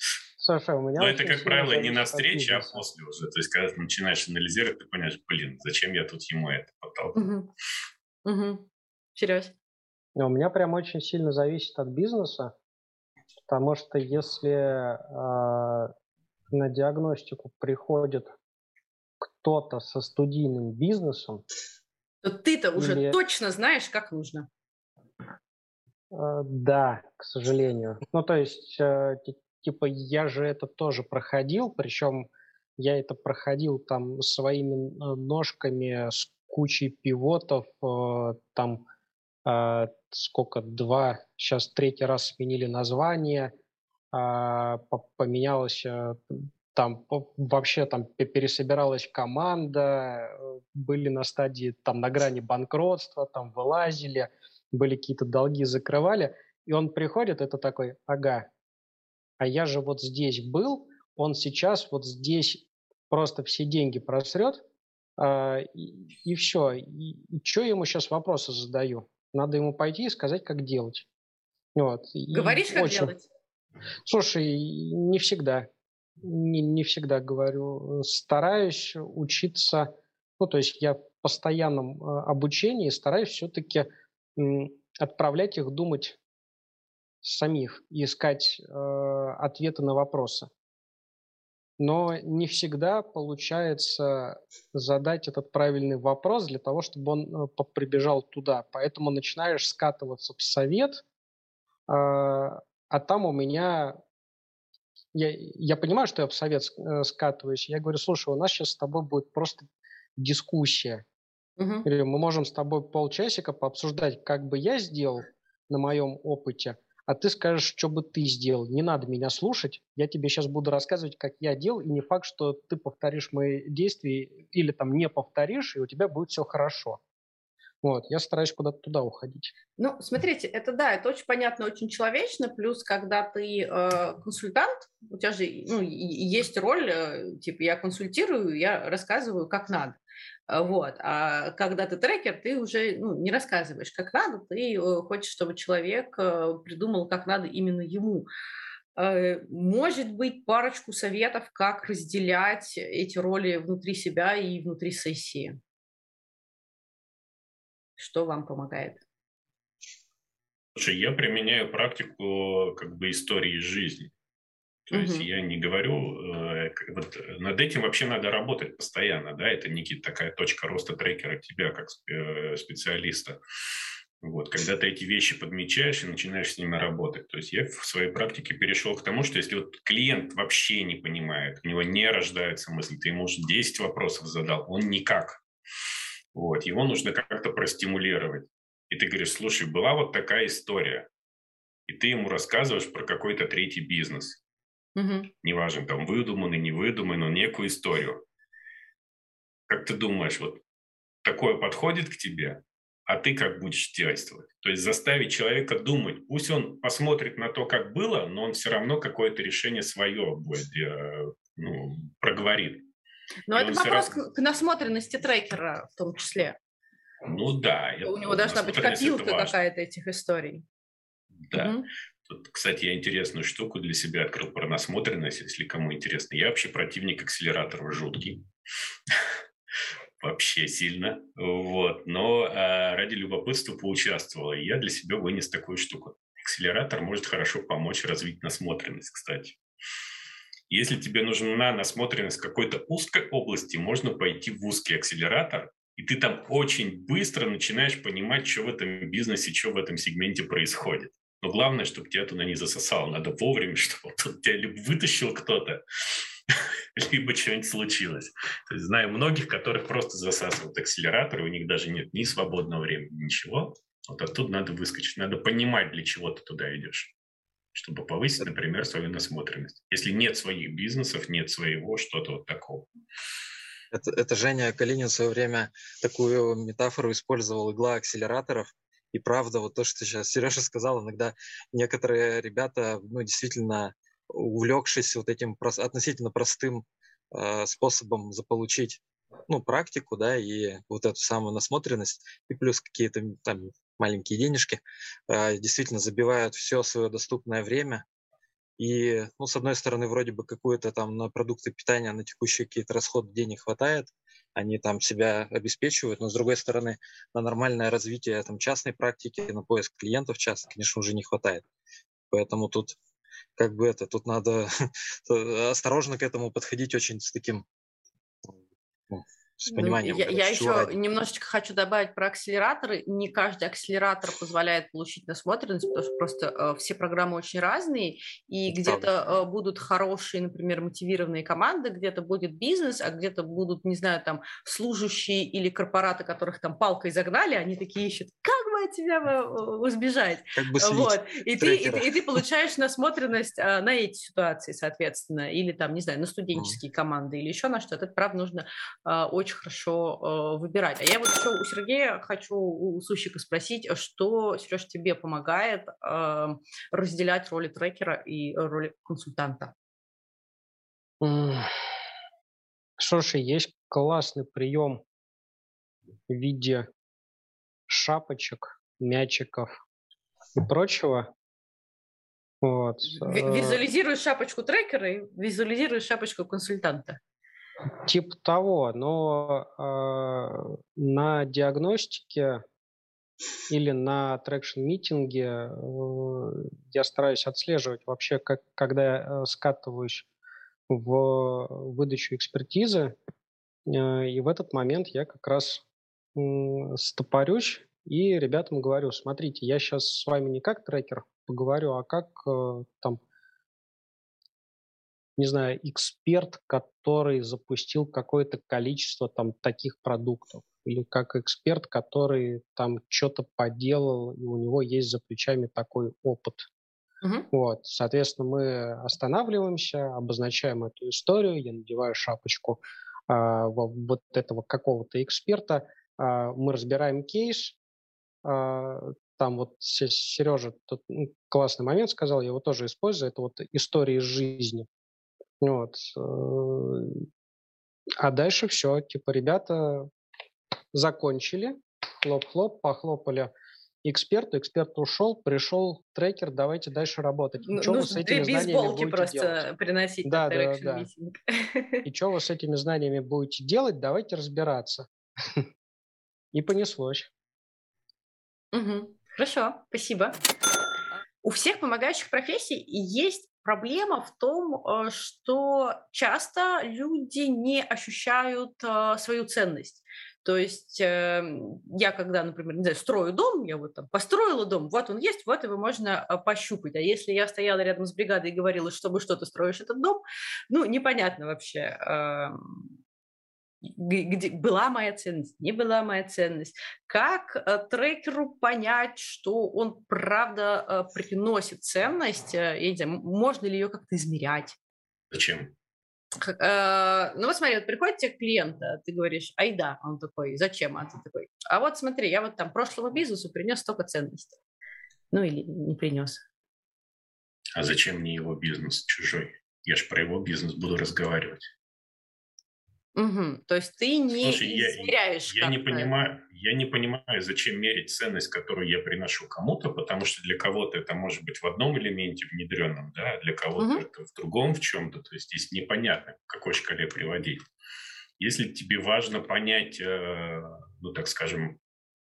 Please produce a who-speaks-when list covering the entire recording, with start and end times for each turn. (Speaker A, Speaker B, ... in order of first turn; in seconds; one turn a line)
Speaker A: 0.4-2.8
Speaker B: 1.0-7.2
Speaker C: 7.1-7.5
Speaker C: 8.2-9.5
Speaker A: 10.2-12.5
Speaker A: 13.5-15.9
Speaker A: 16.5-18.3
Speaker A: 19.2-21.4
Speaker C: 22.2-24.5
Speaker A: 22.8-23.2
Speaker A: 26.1-38.8
Speaker A: 39.4-43.5
Speaker A: 44.1-58.5
Speaker A: 59.4-64.6
Speaker A: 65.2-71.0
Speaker A: 71.7-73.1
Speaker C: 72.3-73.2
Speaker A: 74.0-75.7
Speaker A: 76.2-86.2
Speaker A: 87.2-90.5
Speaker A: 91.8-101.0
Speaker A: 101.9-104.0
Speaker A: 105.1-111.0
Speaker C: 111.6-111.8
Speaker A: 111.8-127.0
Speaker A: 127.8-129.5
Speaker C: 129.8-148.3
Speaker C: 148.9-155.6
Speaker C: 158.0-159.0
Speaker B: 160.8-164.1
Speaker B: 164.9-173.4
Speaker C: 164.9-165.3
Speaker B: 174.2-185.4
Speaker B: 186.3-191.1
Speaker B: 191.9-194.4
Speaker C: 194.9-195.3
Speaker B: 195.4-198.2
Speaker B: 199.7-200.6
Speaker B: 201.2-212.8
Speaker C: 213.5-216.6
Speaker B: 213.5-214.2
Speaker B: 217.2-219.6
Speaker C: 218.0-220.6
Speaker B: 221.5-228.4
Speaker C: 221.5-221.9
Speaker B: 230.2-239.6
Speaker B: 240.7-267.1
Speaker B: 267.7-272.9
Speaker D: 273.9-298.0
Speaker D: 298.8-311.6
Speaker D: 312.3-313.0
Speaker D: 313.6-317.6
Speaker D: 319.1-320.9
Speaker C: 319.7-359.7
Speaker D: 328.7-329.1
Speaker D: 340.5-342.4
Speaker A: 361.2-361.7
Speaker A: 363.0-365.0
Speaker A: 366.3-366.9
Speaker A: 367.9-369.8
Speaker A: 370.6-371.3
Speaker A: 372.6-373.8
Speaker C: 373.1-377.2
Speaker A: 378.0-382.6
Speaker A: 383.7-390.2
Speaker A: 390.9-393.1
Speaker A: 393.9-395.8
Speaker A: 396.4-403.2
Speaker A: 405.4-416.7
Speaker C: 417.2-417.5
Speaker A: 417.5-427.8
Speaker A: 428.4-434.9
Speaker A: 435.6-437.2
Speaker A: 438.2-440.1
Speaker A: 440.9-443.5
Speaker A: 444.0-449.6
Speaker C: 447.7-452.0
Speaker A: 450.2-451.1
Speaker A: 452.0-455.6
Speaker A: 456.5-457.3
Speaker C: 458.7-460.4
Speaker C: 461.4-482.9
Speaker C: 483.8-494.8
Speaker B: 495.3-495.7
Speaker C: 496.4-504.6
Speaker C: 505.3-506.4
Speaker B: 507.8-511.7
Speaker C: 513.1-516.1
Speaker B: 514.4-527.6
Speaker C: 523.8-524.0
Speaker B: 528.4-531.8